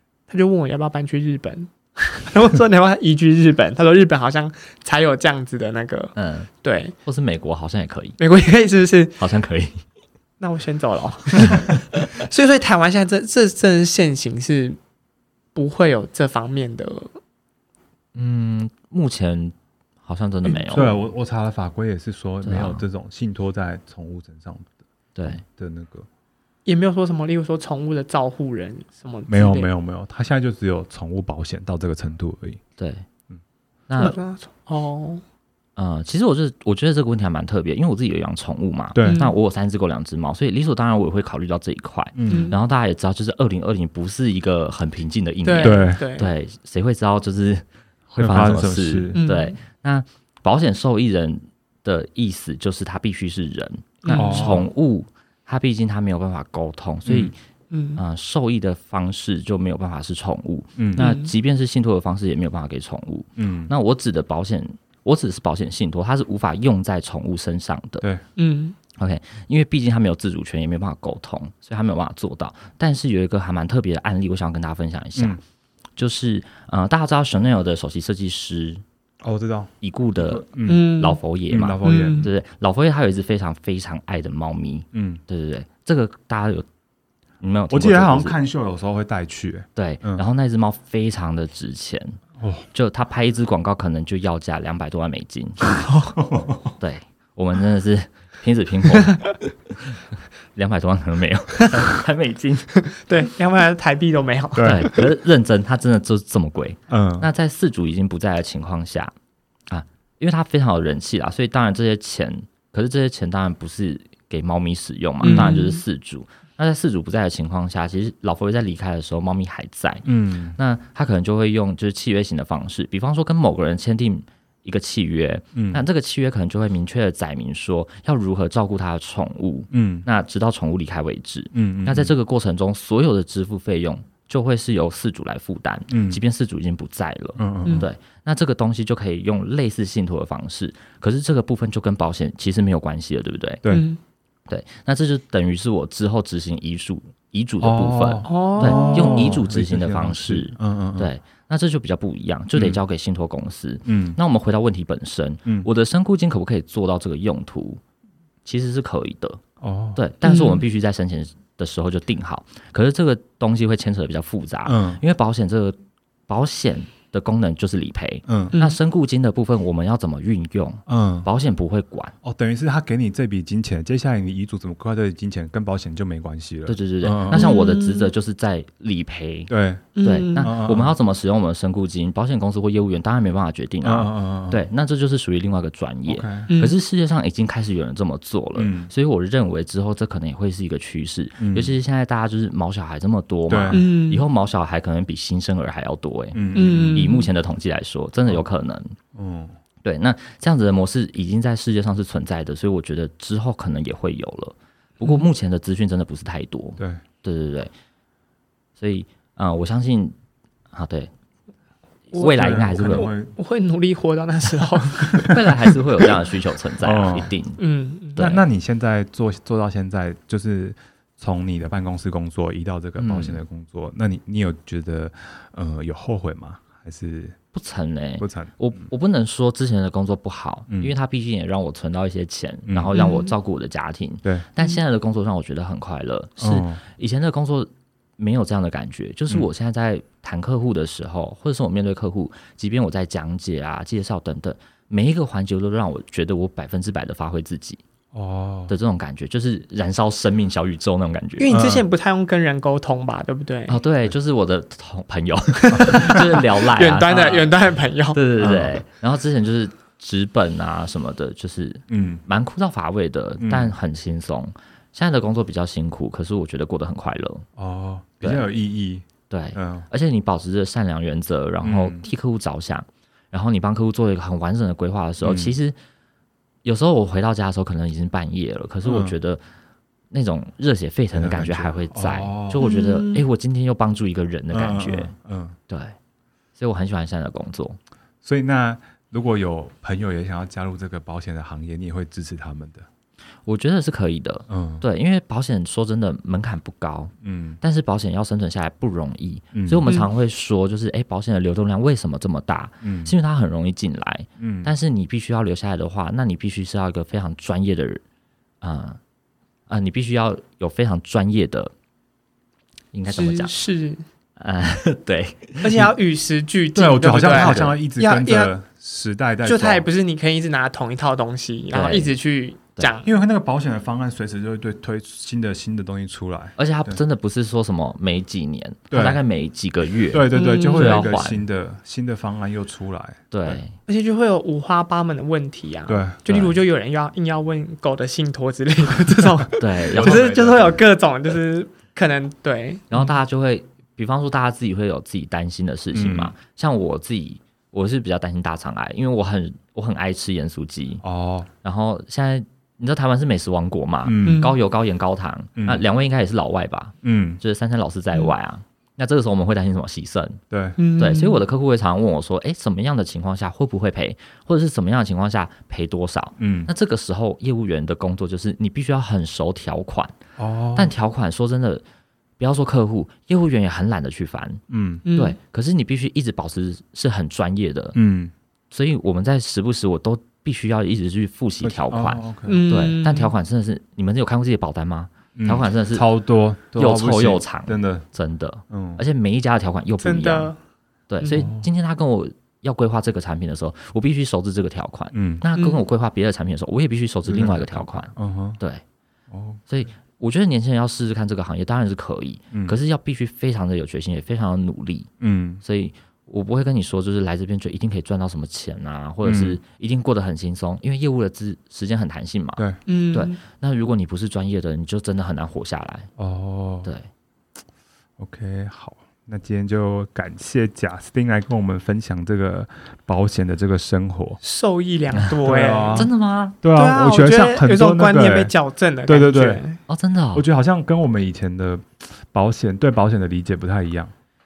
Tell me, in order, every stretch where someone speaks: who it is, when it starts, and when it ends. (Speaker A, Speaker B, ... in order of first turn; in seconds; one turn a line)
Speaker A: 0.3-7.0
Speaker B: 6.2-6.5
Speaker B: 7.0-8.2
Speaker A: 8.2-9.3
Speaker B: 9.2-9.8
Speaker A: 10.4-14.8
Speaker A: 15.6-17.2
Speaker B: 18.1-20.9
Speaker A: 20.4-21.0
Speaker C: 20.7-24.8
Speaker B: 22.4-22.8
Speaker B: 25.1-25.4
Speaker C: 25.3-26.1
Speaker A: 26.7-29.7
Speaker C: 29.3-32.6
Speaker B: 32.8-33.1
Speaker B: 33.9-34.1
Speaker A: 34.0-35.2
Speaker B: 35.8-47.6
Speaker C: 38.9-39.2
Speaker A: 39.0-39.4
Speaker C: 42.1-42.5
Speaker A: 42.3-42.6
Speaker A: 45.4-46.3
Speaker C: 45.6-46.0
Speaker C: 48.1-49.2
Speaker B: 48.2-57.4
Speaker A: 49.1-49.5
Speaker A: 54.0-54.6
Speaker C: 54.1-54.7
Speaker C: 57.0-57.3
Speaker A: 57.7-58.0
Speaker B: 58.0-68.1
Speaker C: 60.8-61.1
Speaker A: 61.0-61.3
Speaker C: 63.4-63.7
Speaker A: 68.4-68.8
Speaker B: 69.0-75.4
Speaker B: 76.0-78.8
Speaker C: 79.2-80.9
Speaker B: 79.8-86.7
Speaker A: 80.7-81.2
Speaker C: 81.5-82.3
Speaker A: 81.8-82.3
Speaker C: 84.9-85.2
Speaker B: 87.4-88.4
Speaker C: 87.7-90.2
Speaker B: 89.8-92.2
Speaker C: 92.4-92.7
Speaker B: 92.7-95.6
Speaker C: 96.1-96.7
Speaker B: 96.8-99.2
Speaker B: 100.5-102.7
Speaker A: 102.8-105.0
Speaker C: 104.5-104.9
Speaker B: 104.6-109.1
Speaker C: 106.9-107.3
Speaker B: 109.7-143.6
Speaker C: 115.2-115.6
Speaker A: 115.2-115.8
Speaker C: 120.0-120.6
Speaker C: 125.5-125.8
Speaker C: 129.7-130.1
Speaker C: 131.5-132.1
Speaker C: 135.9-136.2
Speaker C: 137.4-137.9
Speaker A: 143.7-144.0
Speaker B: 144.5-157.8
Speaker C: 147.6-151.1
Speaker A: 148.3-149.4
Speaker C: 152.6-152.8
Speaker C: 153.9-154.2
Speaker B: 158.4-159.4
Speaker C: 159.6-160.0
Speaker B: 160.0-172.2
Speaker A: 160.2-160.6
Speaker C: 164.7-165.0
Speaker C: 168.3-168.5
Speaker C: 170.9-171.3
Speaker C: 172.2-177.5
Speaker B: 176.7-179.5
Speaker A: 177.3-178.1
Speaker C: 179.5-181.0
Speaker A: 179.9-180.5
Speaker B: 180.0-199.0
Speaker C: 183.8-184.7
Speaker C: 186.1-186.5
Speaker A: 186.5-186.8
Speaker C: 188.6-188.9
Speaker C: 191.4-191.8
Speaker C: 193.5-193.8
Speaker A: 193.7-194.3
Speaker C: 196.3-197.1
Speaker A: 196.6-197.3
Speaker C: 199.1-199.5
Speaker B: 199.8-207.7
Speaker B: 208.8-210.2
Speaker B: 210.7-211.1
Speaker B: 212.1-213.1
Speaker A: 212.1-215.4
Speaker C: 212.3-213.3
Speaker B: 215.2-217.6
Speaker C: 216.8-217.3
Speaker A: 217.6-218.3
Speaker C: 218.2-227.4
Speaker B: 223.0-223.4
Speaker B: 227.5-247.8
Speaker C: 228.2-228.9
Speaker C: 232.7-232.9
Speaker A: 232.9-233.3
Speaker C: 236.4-236.8
Speaker C: 248.1-248.7
Speaker B: 248.7-251.6
Speaker A: 251.4-253.8
Speaker C: 251.5-251.8
Speaker B: 253.7-257.5
Speaker A: 255.6-258.2
Speaker B: 258.1-267.5
Speaker C: 258.4-258.8
Speaker C: 261.9-262.2
Speaker C: 263.4-263.7
Speaker C: 267.6-269.9
Speaker B: 269.3-275.8
Speaker C: 271.6-272.1
Speaker C: 275.2-275.6
Speaker B: 276.6-279.4
Speaker C: 278.8-279.1
Speaker B: 280.1-285.1
Speaker C: 281.1-282.7
Speaker A: 282.6-283.3
Speaker C: 284.5-285.6
Speaker B: 285.7-285.9
Speaker B: 286.6-287.8
Speaker C: 288.2-292.9
Speaker B: 293.5-308.0
Speaker C: 294.5-294.8
Speaker C: 297.2-297.6
Speaker C: 299.5-299.9
Speaker A: 299.9-300.1
Speaker C: 302.8-303.1
Speaker C: 304.4-304.7
Speaker B: 308.6-309.0
Speaker B: 309.7-311.7
Speaker B: 312.9-313.5
Speaker A: 313.1-314.0
Speaker B: 314.4-315.7
Speaker A: 315.6-318.5
Speaker C: 316.8-319.9
Speaker B: 317.3-317.7
Speaker A: 319.4-323.1
Speaker B: 321.7-322.1
Speaker C: 323.0-327.0
Speaker B: 326.6-331.4
Speaker C: 328.9-329.2
Speaker C: 330.1-333.6
Speaker A: 330.3-331.2
Speaker B: 333.3-333.8
Speaker A: 333.9-342.9
Speaker C: 335.9-336.2
Speaker B: 336.3-336.6
Speaker B: 339.6-340.3
Speaker C: 339.9-340.8
Speaker B: 342.9-351.0
Speaker C: 345.9-346.3
Speaker C: 351.0-351.5
Speaker B: 351.6-360.4
Speaker C: 354.1-354.5
Speaker A: 354.2-354.6
Speaker C: 355.6-355.8
Speaker C: 357.0-357.4
Speaker C: 360.5-360.8
Speaker A: 360.8-361.4
Speaker B: 361.0-370.2
Speaker C: 366.4-366.7
Speaker C: 370.4-370.9
Speaker B: 370.8-371.8
Speaker B: 372.4-374.6
Speaker C: 374.7-375.1
Speaker A: 375.1-375.4
Speaker B: 375.1-378.0
Speaker C: 377.9-378.3
Speaker B: 378.7-386.1
Speaker C: 381.6-382.6
Speaker A: 382.5-383.3
Speaker C: 385.4-388.1
Speaker B: 386.8-390.5
Speaker C: 388.7-389.0
Speaker A: 390.0-390.6
Speaker B: 391.1-398.8
Speaker C: 391.3-391.7
Speaker C: 395.1-395.4
Speaker A: 395.6-395.9
Speaker C: 397.3-398.6
Speaker C: 399.3-399.6
Speaker B: 399.7-405.1
Speaker C: 402.5-402.8
Speaker C: 405.2-405.6
Speaker B: 405.6-416.1
Speaker C: 409.2-409.6
Speaker A: 412.9-413.4
Speaker C: 416.2-416.9
Speaker C: 418.2-424.4
Speaker A: 424.4-426.1
Speaker C: 425.4-426.1
Speaker B: 425.9-426.6
Speaker C: 426.6-428.5
Speaker A: 426.7-429.8
Speaker C: 429.1-429.6
Speaker B: 429.9-430.4
Speaker C: 430.4-434.1